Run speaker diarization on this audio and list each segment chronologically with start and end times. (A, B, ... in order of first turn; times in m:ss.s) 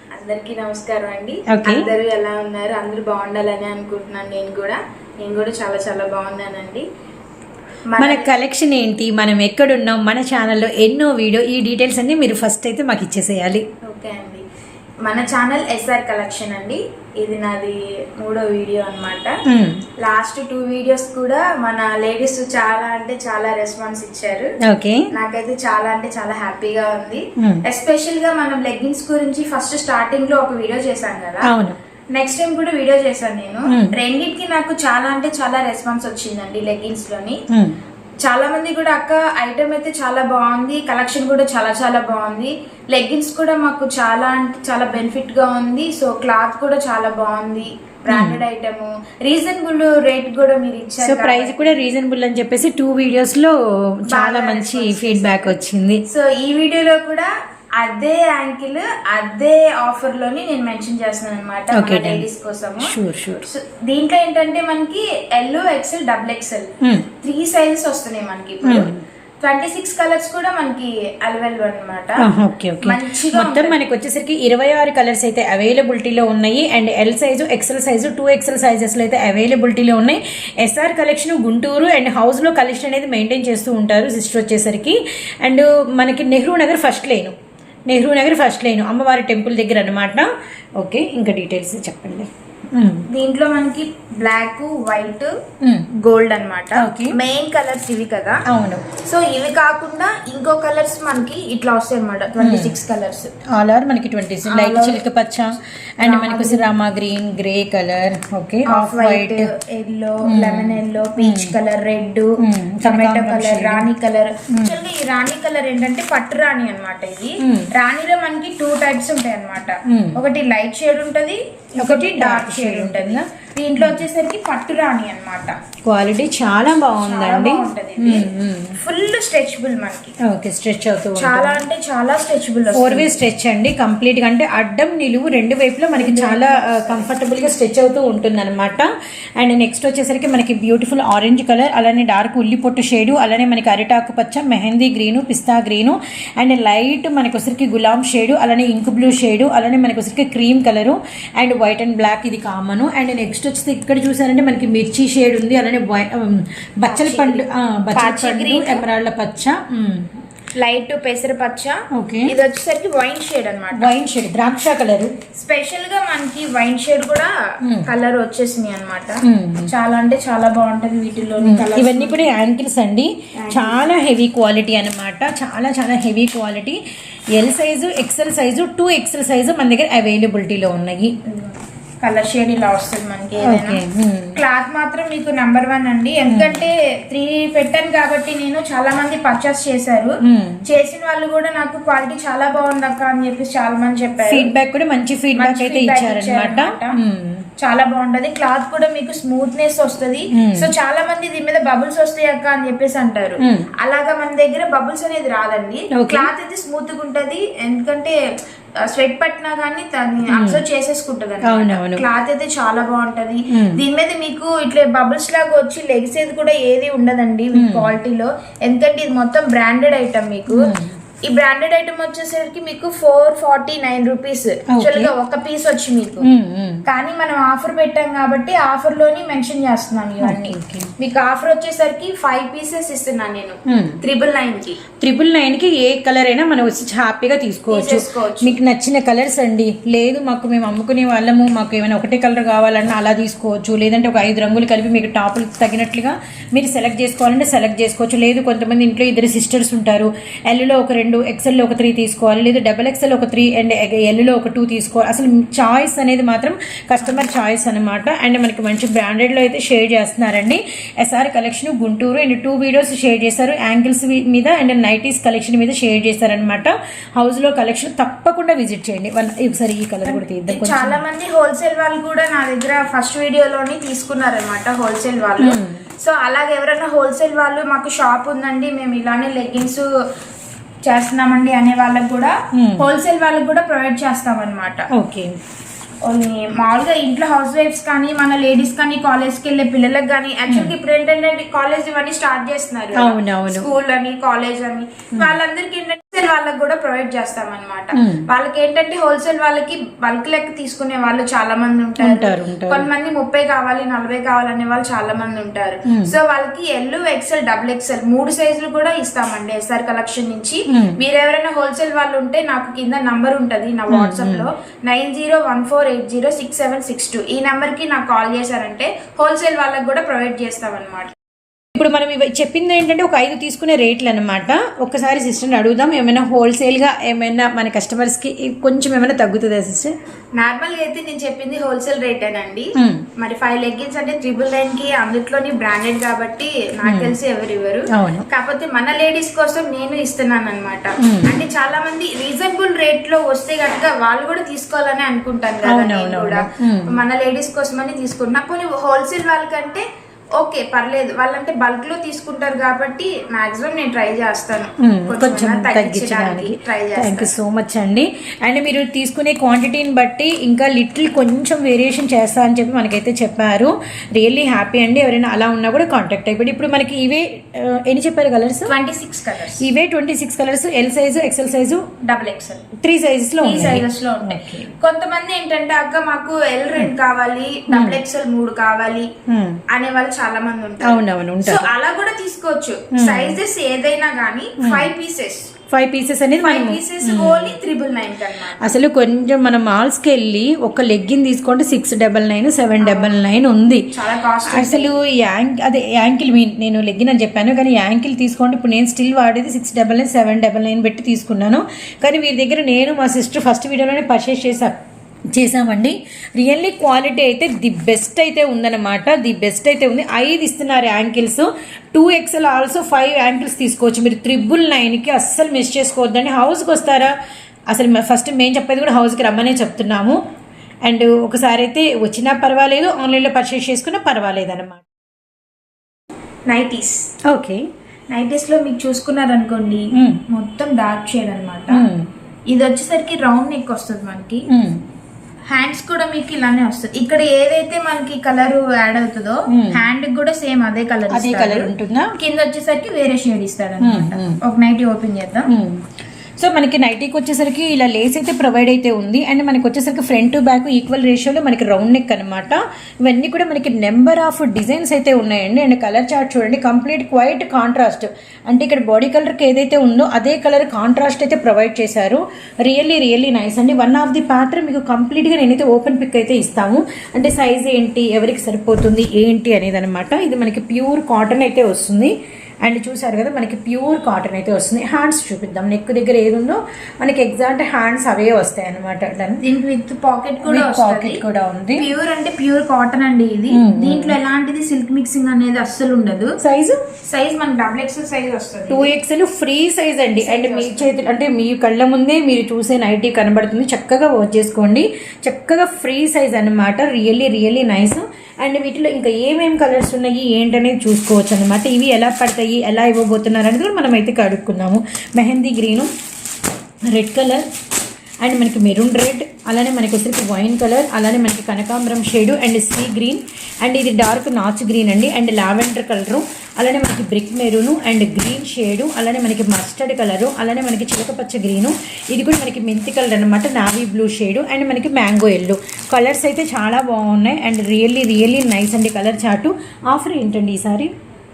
0:00.1-0:06.9 A
0:01.5-0:01.9 B
0:07.9-0:08.3 A
0:08.0-0:13.6 B
0:13.8-0:14.4 A
0:15.0-0:19.4 A
0:19.4-0:19.8 B
0:20.0-0:24.5 A
0:24.6-0:25.1 B
0:25.1-0:31.5 A
0:27.4-0:27.6 B
0:31.4-0:31.8 B
0:32.1-0:37.4 A
0:33.7-0:33.9 B
0:38.2-0:51.9 A
0:48.1-0:48.4 B
0:51.0-0:56.0 B
0:54.1-1:12.3 A
1:01.7-1:02.2 B
1:02.8-1:03.4 B
1:08.6-1:09.0 B
1:12.2-1:27.4 B
1:12.8-1:13.8 A
1:27.9-1:33.1 B
1:33.1-1:35.3 A
1:35.6-1:35.9 B
1:35.9-1:43.3 A
1:36.8-1:37.2 B
1:38.4-1:38.8 B
1:42.4-1:42.7 B
1:43.5-1:49.5 B
1:44.4-1:45.0 A
1:46.0-1:46.7 A
1:48.6-2:05.6 A
1:50.2-1:51.5 B
1:52.4-1:53.9 B
1:54.5-1:54.8 B
1:57.4-1:57.7 B
1:59.8-2:00.2 B
2:01.8-2:03.2 B
2:05.9-2:08.8 B
2:07.0-2:10.1 A
2:10.2-2:11.6 B
2:11.2-2:13.2 A
2:12.7-2:40.2 B
2:15.9-2:17.1 A
2:36.8-2:38.8 A
2:40.6-2:44.0 A
2:41.9-2:42.4 B
2:43.7-2:45.1 B
2:45.3-2:47.3 A
2:47.6-2:47.9 B
2:47.8-2:52.3 A
2:49.2-2:49.7 B
2:51.4-2:56.8 B
2:53.4-2:53.9 A
2:57.3-3:01.1 B
3:01.2-3:03.8 A
3:03.4-3:04.4 B
3:04.4-3:14.5 A
3:06.3-3:06.6 B
3:10.2-3:10.6 B
3:14.2-3:17.4 B
3:15.4-3:16.9 A
3:17.6-3:28.2 A
3:20.3-3:20.7 B
3:23.4-3:23.6 B
3:25.9-3:26.3 B
3:28.8-3:40.7 A
3:30.3-3:30.6 B
3:31.4-3:32.0 B
3:33.5-3:33.8 B
3:37.5-3:37.9 B
3:40.5-3:41.0 B
3:41.2-3:46.3 A
3:44.7-3:45.1 B
3:46.2-3:46.8 B
3:46.8-3:54.8 A
3:50.2-3:50.9 B
3:53.7-3:54.0 B
3:55.0-4:31.0 B
3:57.7-3:58.6 A
4:17.0-4:17.4 A
4:30.0-4:39.9 A
4:35.4-4:35.8 B
4:40.8-4:44.8 A
4:42.5-4:42.9 B
4:44.9-4:45.3 B
4:46.0-5:21.1 A
4:52.9-4:53.7 B
4:57.9-4:58.3 B
5:02.0-5:02.9 B
5:05.8-5:06.2 B
5:10.7-5:11.0 B
5:13.9-5:14.5 B
5:21.7-5:30.0 B
5:30.4-5:57.3 A
5:32.8-5:33.0 B
5:36.8-5:37.1 B
5:37.9-5:38.3 B
5:41.0-5:41.4 B
5:45.6-5:47.0 B
5:54.8-6:08.7 B
6:08.7-6:09.6 A
6:09.6-6:11.9 B
6:12.0-6:12.7 A
6:12.8-6:14.7 B
6:13.4-6:19.1 A
6:17.7-6:18.0 B
6:19.3-6:19.6 B
6:19.7-6:25.5 A
6:20.8-6:21.7 B
6:22.9-6:23.4 B
6:24.6-6:24.9 B
6:25.7-6:27.5 B
6:26.4-6:28.8 A
6:28.6-6:33.9 B
6:32.8-6:33.2 A
6:33.9-6:34.9 A
6:34.4-6:44.8 B
6:45.3-6:57.1 B
6:57.7-7:00.2 B
7:00.8-7:04.8 B
7:06.5-7:07.1 A
7:07.3-7:07.7 B
7:08.1-7:11.9 A
7:09.9-7:10.2 B
7:11.7-7:12.1 B
7:12.5-7:14.4 A
7:14.5-7:14.8 B
7:15.5-7:25.5 A
7:19.5-7:19.8 B
7:21.1-7:22.1 B
7:23.8-7:24.4 B
7:25.5-7:59.4 B
7:59.4-8:01.2 A
8:00.4-8:01.9 B
8:01.8-8:06.3 A
8:03.5-8:04.2 B
8:06.4-8:06.8 B
8:07.0-8:08.9 A
8:08.7-8:25.9 B
8:10.2-8:11.0 A
8:26.9-8:27.5 B
8:28.2-8:50.9 B